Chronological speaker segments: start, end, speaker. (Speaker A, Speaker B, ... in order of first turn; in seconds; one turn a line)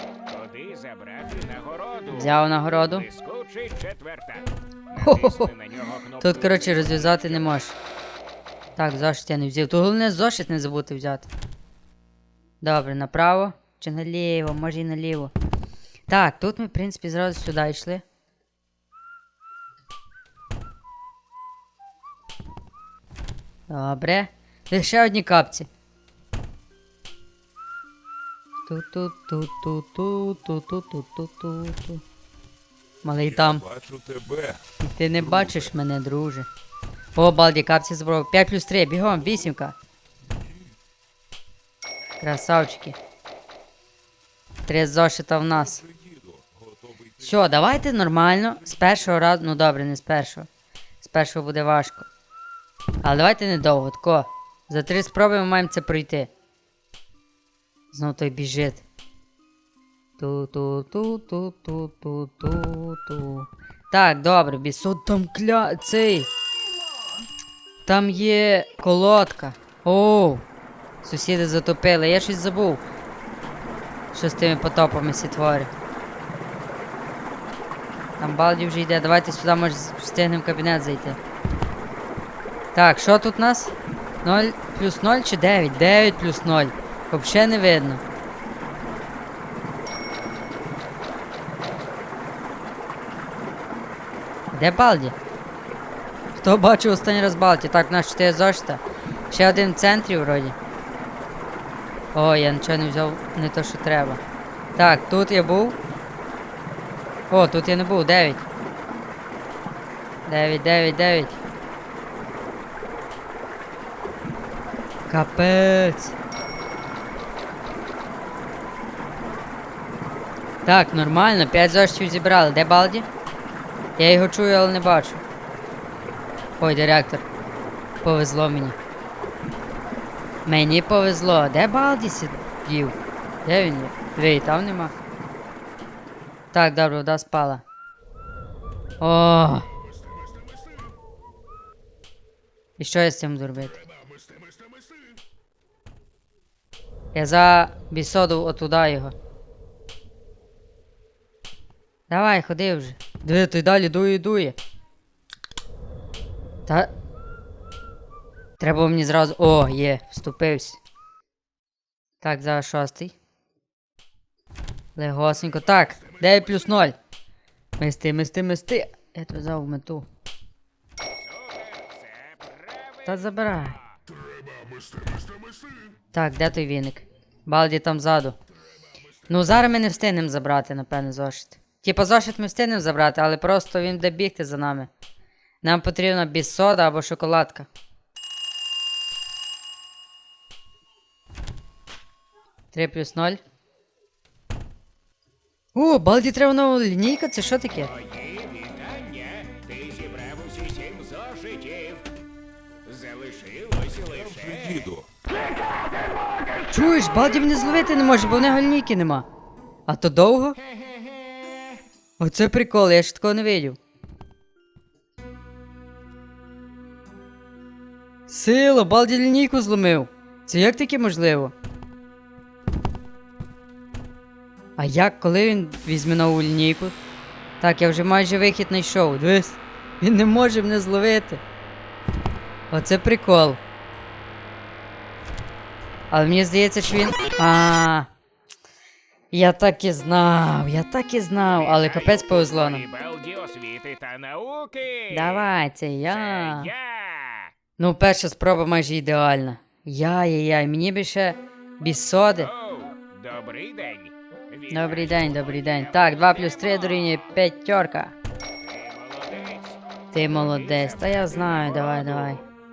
Speaker A: 0.3-2.1
Speaker B: 2.1-3.1
Speaker A: 3.1-4.4
Speaker B: 5.0-5.5
Speaker A: 5.0-6.5
Speaker B: 6.2-7.7
Speaker B: 8.8-11.3
Speaker B: 12.6-15.3
Speaker B: 16.1-18.0
Speaker B: 23.7-25.7
Speaker B: 28.7-32.0
Speaker B: 33.0-33.6
Speaker C: 33.3-34.6
Speaker B: 34.8-36.5
Speaker B: 37.1-39.8
Speaker B: 42.2-43.0
Speaker B: 44.7-45.8
Speaker C: 45.8-47.4
Speaker B: 47.2-50.5
Speaker B: 51.0-52.1
Speaker B: 53.0-56.3
Speaker B: 57.9-58.8
Speaker B: 60.2-66.3
Speaker B: 67.9-70.4
Speaker B: 71.0-72.8
Speaker B: 74.1-75.7
Speaker B: 78.2-81.2
Speaker B: 82.7-88.0
Speaker B: 94.5-95.2
Speaker B: 96.4-100.6
Speaker B: 102.1-104.2
Speaker B: 104.8-105.8
Speaker B: 107.3-108.5
Speaker B: 110.3-111.4
Speaker B: 115.1-116.1
Speaker B: 120.7-123.1
Speaker B: 124.0-125.2
Speaker B: 126.6-127.2
Speaker B: 128.0-128.8
Speaker B: 130.5-134.9
Speaker B: 136.5-137.6
Speaker B: 139.0-139.7
Speaker B: 142.8-143.8
Speaker B: 147.1-149.1
Speaker B: 152.1-154.6
Speaker B: 158.6-160.8
Speaker B: 162.2-163.2
Speaker B: 165.0-167.0
Speaker B: 167.8-170.1
Speaker A: 171.5-172.8
Speaker B: 173.0-173.8
Speaker B: 176.1-178.4
Speaker B: 179.3-184.9
Speaker B: 185.6-187.7
Speaker B: 192.7-193.4
Speaker B: 195.8-197.9
Speaker A: 198.6-202.0
Speaker A: 202.9-204.3
Speaker C: 204.1-205.1
Speaker B: 206.7-209.3
Speaker B: 209.9-210.6
Speaker B: 212.2-213.8
Speaker B: 218.3-221.5
Speaker B: 224.8-226.9
Speaker B: 227.6-231.4
Speaker B: 232.7-233.6
Speaker B: 236.1-238.1
Speaker B: 239.3-242.8
Speaker A: 242.8-245.0
Speaker B: 245.1-246.7
Speaker B: 247.8-252.5
Speaker A: 252.9-254.1
Speaker B: 254.7-258.1
Speaker A: 254.8-255.5
Speaker A: 259.1-259.7
Speaker B: 260.1-262.4